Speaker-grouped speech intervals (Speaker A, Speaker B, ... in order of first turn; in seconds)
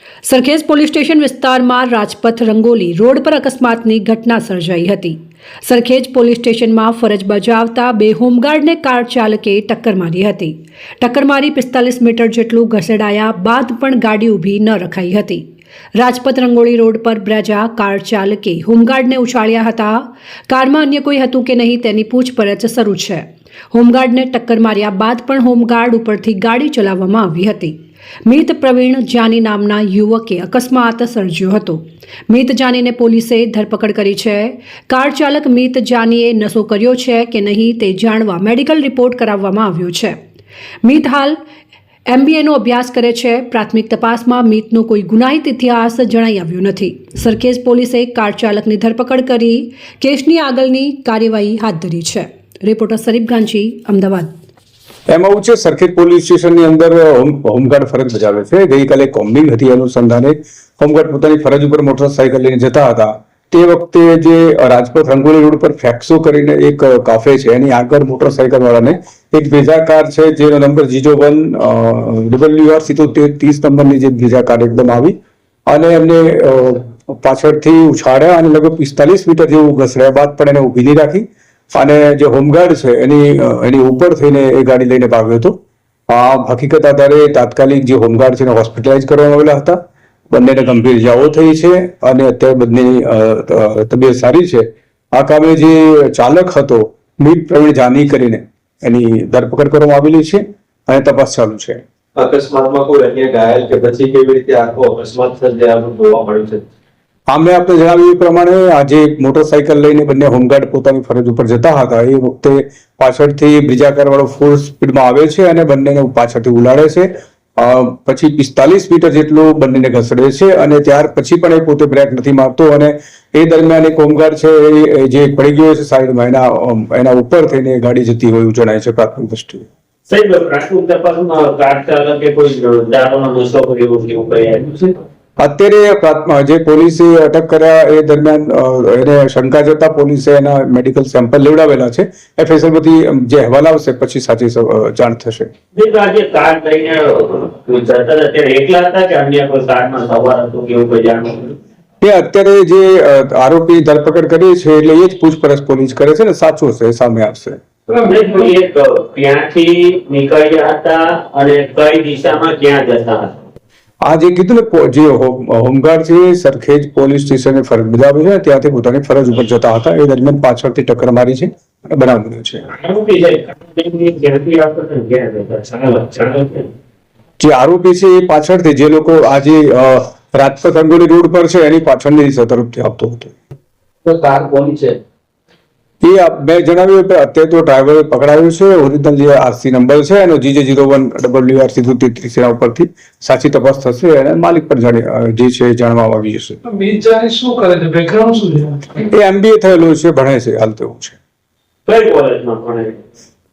Speaker A: 0.2-15.4, 15.9-40.2, 40.8-41.4, 42.1-54.3
Speaker B: 55.1-75.1, 75.7-85.6, 86.1-89.8, 90.3-101.8, 107.3-129.7, 135.4-145.5, 152.0-157.6, 164.0-172.6, 177.4-183.3, 186.0-196.6, 199.1-201.2
Speaker C: 102.2-106.7, 184.1-185.0
Speaker D: 130.1-135.0, 145.8-151.6, 158.0-163.3, 172.7-176.7, 201.9-203.0
Speaker E: 157.9-158.5, 196.6-199.0